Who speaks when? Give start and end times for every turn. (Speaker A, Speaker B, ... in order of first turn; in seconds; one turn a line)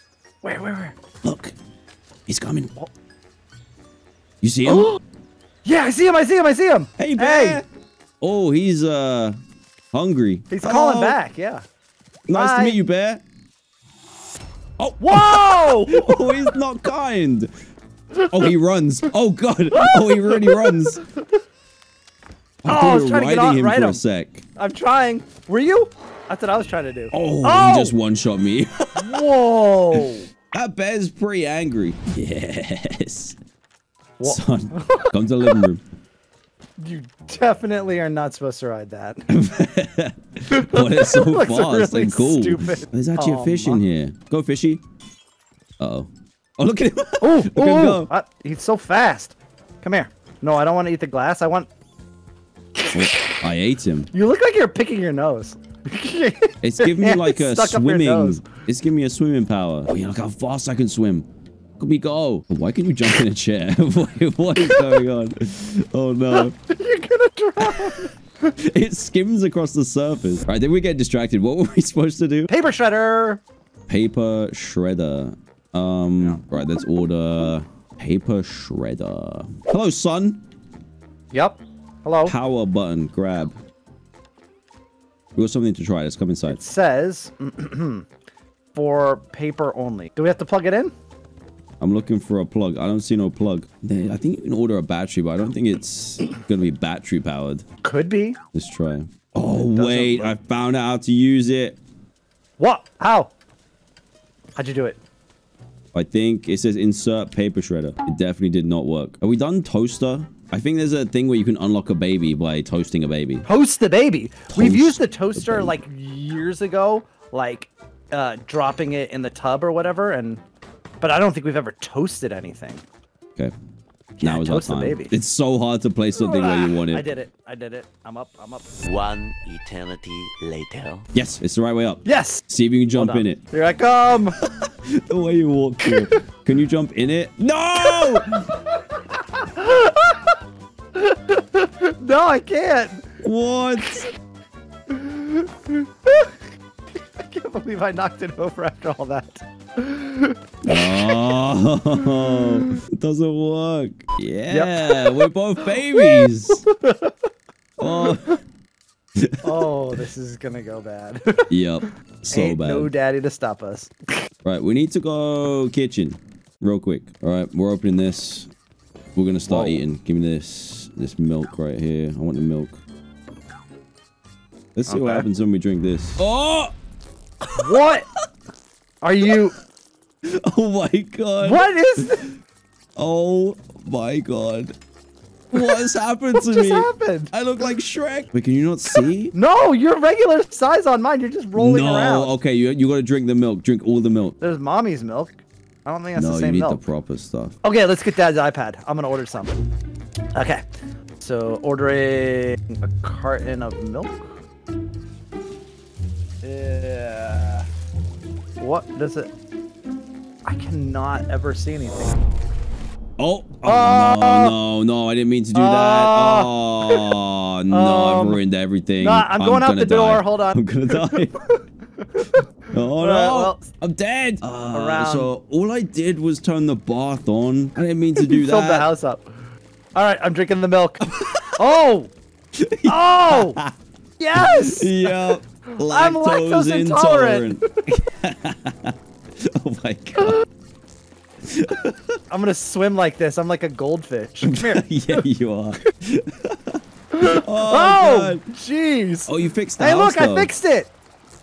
Speaker A: 0.4-1.0
Speaker B: 1.2-1.6
Speaker B: 2.3-2.7
Speaker B: 4.4-5.0
Speaker A: 5.6-7.6
Speaker B: 7.0-7.6
Speaker B: 8.2-9.4
Speaker B: 9.9-11.2
Speaker A: 10.5-11.6
Speaker B: 12.3-13.2
Speaker A: 12.3-12.8
Speaker B: 14.8-17.5
Speaker A: 15.0-16.5
Speaker A: 18.2-18.5
Speaker B: 18.3-21.0
Speaker A: 19.8-20.7
Speaker B: 22.6-24.4
Speaker A: 22.7-24.0
Speaker A: 24.6-27.9
Speaker B: 27.1-29.2
Speaker A: 28.9-30.2
Speaker B: 30.5-33.4
Speaker A: 34.2-35.6
Speaker B: 34.2-35.8
Speaker A: 36.8-39.3
Speaker B: 39.3-44.8
Speaker A: 40.5-43.8
Speaker B: 45.8-48.1
Speaker A: 47.2-51.7
Speaker A: 52.8-53.2
Speaker B: 52.9-54.1
Speaker A: 54.1-58.4
Speaker B: 56.6-61.3
Speaker B: 61.8-66.6
Speaker A: 66.3-68.1
Speaker B: 67.6-72.5
Speaker A: 72.5-73.4
Speaker B: 73.9-80.4
Speaker A: 81.3-82.3
Speaker B: 82.2-83.5
Speaker B: 85.3-86.6
Speaker A: 86.5-88.0
Speaker A: 88.7-90.9
Speaker B: 91.8-97.6
Speaker A: 97.8-98.4
Speaker B: 98.5-101.8
Speaker A: 99.4-100.3
Speaker A: 102.6-103.3
Speaker A: 104.5-105.0
Speaker B: 105.9-113.5
Speaker A: 113.4-120.4
Speaker B: 114.5-115.8
Speaker A: 121.0-122.8
Speaker A: 124.2-125.1
Speaker B: 124.2-127.0
Speaker A: 126.2-128.8
Speaker C: 128.8-131.1
Speaker B: 131.1-133.4
Speaker A: 132.0-132.4
Speaker A: 132.9-134.4
Speaker B: 134.4-138.5
Speaker A: 135.8-136.2
Speaker A: 137.8-140.3
Speaker A: 140.9-143.0
Speaker B: 143.2-144.1
Speaker A: 144.9-146.3
Speaker A: 147.2-151.4
Speaker B: 150.6-156.7
Speaker A: 152.0-152.7
Speaker A: 154.5-157.1
Speaker B: 157.8-158.4
Speaker A: 157.8-158.3
Speaker B: 159.2-159.7
Speaker A: 159.4-163.9
Speaker B: 161.5-162.9
Speaker B: 164.4-168.5
Speaker B: 169.2-172.8
Speaker A: 169.5-169.8
Speaker B: 174.7-176.7
Speaker A: 174.9-175.2
Speaker B: 177.5-177.8
Speaker A: 177.6-178.1
Speaker A: 179.0-179.5
Speaker B: 180.2-182.1
Speaker A: 181.4-182.4
Speaker B: 183.0-184.7
Speaker B: 185.5-189.3
Speaker A: 185.5-185.8
Speaker A: 186.3-187.3
Speaker A: 189.0-192.3
Speaker B: 191.5-194.4
Speaker A: 194.4-196.8
Speaker B: 196.1-197.6
Speaker A: 197.6-199.7
Speaker A: 200.3-200.6
Speaker A: 201.2-204.3
Speaker A: 206.4-207.7
Speaker A: 208.6-209.3
Speaker A: 210.4-212.2
Speaker B: 213.2-221.4
Speaker A: 213.6-214.5
Speaker A: 215.5-217.1
Speaker A: 217.7-218.4
Speaker A: 219.0-223.7
Speaker B: 222.7-228.9
Speaker A: 224.7-225.3
Speaker A: 228.2-229.2
Speaker A: 229.9-232.1
Speaker B: 231.1-231.6
Speaker B: 232.6-233.7
Speaker A: 232.8-233.6
Speaker A: 234.2-237.9
Speaker B: 234.3-240.4
Speaker B: 241.4-242.2
Speaker A: 242.3-245.2
Speaker B: 244.4-248.5
Speaker A: 247.1-250.9
Speaker B: 249.3-250.5